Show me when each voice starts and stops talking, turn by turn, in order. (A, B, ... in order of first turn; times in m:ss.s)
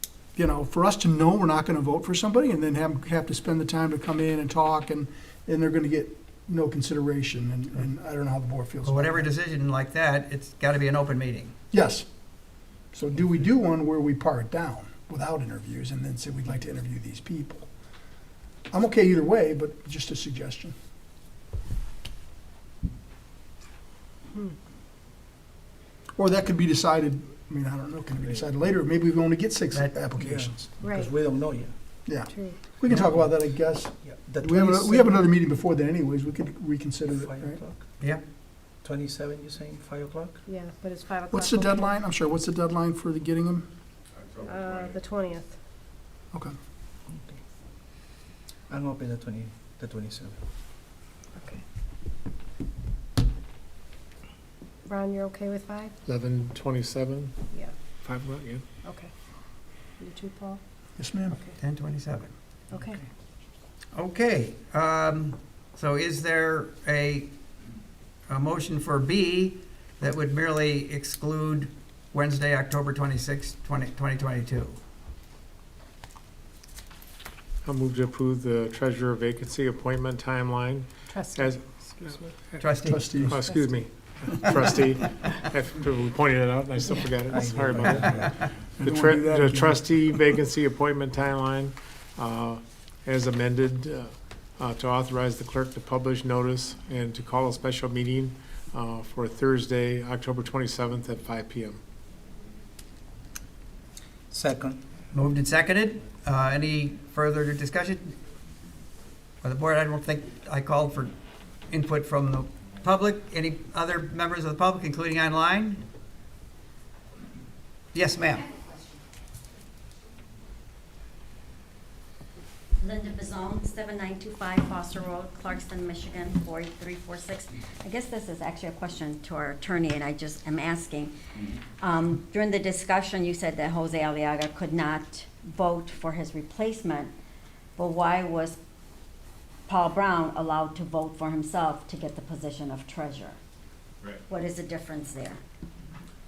0:00.4-0:09.3 A
0:08.8-0:11.5 B
0:11.7-0:12.1 A
0:12.9-0:17.7 A
0:18.7-0:20.7 A
0:26.2-0:30.7 A
0:29.7-0:30.0 B
0:30.2-0:31.7 C
0:30.8-0:31.1 D
0:32.1-0:37.6 A
0:32.3-0:32.6 D
0:32.9-0:33.1 B
0:34.0-0:35.2 C
0:37.1-0:37.8 C
0:38.8-0:40.4 C
0:40.5-0:42.0 D
0:41.3-0:43.7 A
0:44.4-0:45.6 D
0:47.1-0:47.4 C
0:48.7-0:50.4 C
0:51.4-0:51.6 D
0:54.9-0:55.9 D
0:56.1-0:57.3 E
0:58.0-0:58.6 E
0:58.8-0:59.1 D
1:00.0-1:00.6 D
1:01.0-1:01.4 A
1:01.6-1:02.3 B
1:02.7-1:03.0 D
1:03.9-1:07.3 B
1:08.3-1:14.8 B
1:17.6-1:28.2 E
1:21.1-1:22.4 D
1:22.6-1:23.1 B
1:22.8-1:23.4 A
1:23.4-1:23.8 D
1:27.2-1:28.3 C
1:28.8-1:29.8 A
1:28.8-1:41.8 E
1:44.3-1:44.8 C
1:45.1-1:48.2 B
1:49.4-1:51.2 B
1:51.7-1:55.8 B
1:57.9-1:58.4 B
2:02.8-2:11.1 F
2:11.8-2:17.1 F
2:17.8-2:18.6 F
2:19.7-2:23.4 F
2:24.3-2:25.4 F